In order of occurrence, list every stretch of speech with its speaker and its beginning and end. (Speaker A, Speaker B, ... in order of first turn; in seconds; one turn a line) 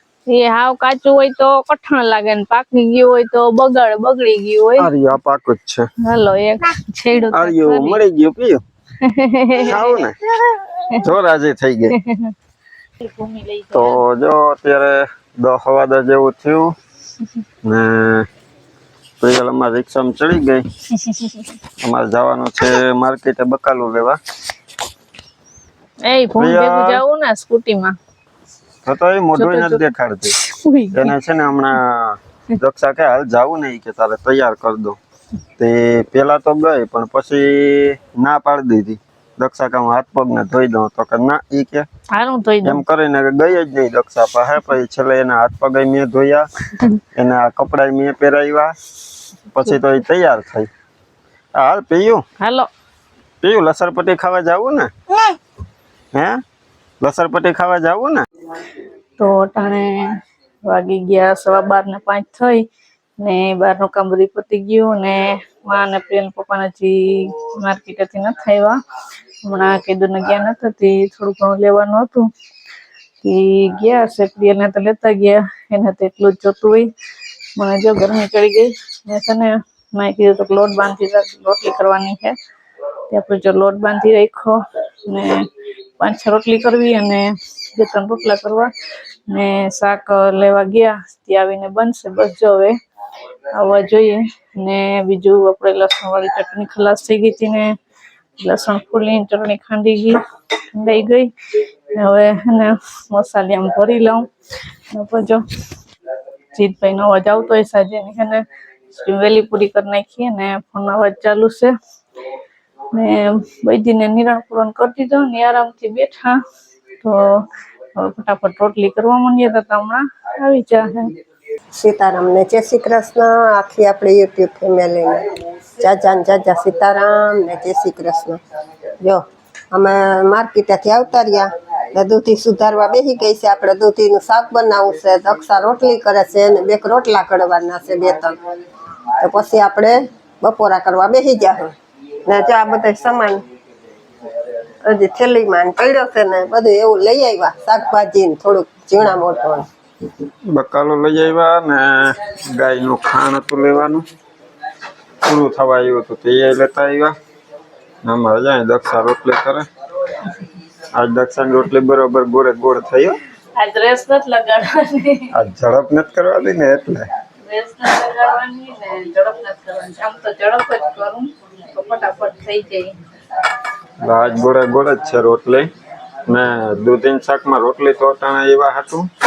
Speaker A: 0.3-4.9
Speaker B: 4.8-5.9
Speaker A: 6.0-8.0
Speaker B: 7.3-8.6
Speaker A: 9.0-10.0
Speaker B: 9.6-10.2
Speaker A: 10.8-11.1
Speaker B: 10.9-12.0
Speaker A: 11.9-12.3
Speaker A: 13.0-14.0
Speaker B: 13.7-16.7
Speaker B: 17.6-18.3
Speaker B: 19.2-20.7
Speaker B: 21.8-24.2
Speaker A: 26.0-27.9
Speaker B: 26.4-27.0
Speaker B: 28.9-30.4
Speaker A: 29.4-31.1
Speaker B: 30.9-35.0
Speaker B: 35.6-41.9
Speaker A: 42.1-42.8
Speaker B: 42.6-46.5
Speaker B: 47.1-48.8
Speaker B: 49.5-50.7
Speaker B: 51.5-52.2
Speaker A: 52.4-52.7
Speaker B: 53.4-54.9
Speaker B: 56.1-56.4
Speaker B: 57.0-58.3
Speaker A: 59.2-60.1
Speaker A: 60.7-62.6
Speaker A: 63.2-68.8
Speaker A: 69.5-72.3
Speaker A: 73.2-76.9
Speaker A: 77.6-82.4
Speaker A: 83.1-85.5
Speaker A: 86.0-88.7
Speaker A: 89.3-92.8
Speaker A: 93.5-97.7
Speaker A: 98.4-100.2
Speaker A: 100.7-101.3
Speaker A: 101.9-104.3
Speaker A: 104.9-105.4
Speaker A: 106.5-108.4
Speaker A: 109.0-111.7
Speaker A: 112.9-116.4
Speaker A: 117.0-117.4
Speaker A: 118.0-121.1
Speaker C: 121.8-125.2
Speaker C: 125.8-128.4
Speaker C: 129.0-138.4
Speaker C: 139.2-141.7
Speaker C: 142.2-143.4
Speaker C: 144.8-149.7
Speaker B: 150.5-154.1
Speaker B: 155.2-157.1
Speaker B: 158.1-159.7
Speaker B: 160.9-163.2
Speaker A: 163.6-165.3
Speaker B: 165.3-167.1
Speaker A: 167.5-172.9
Speaker B: 174.0-175.7
Speaker B: 176.3-179.1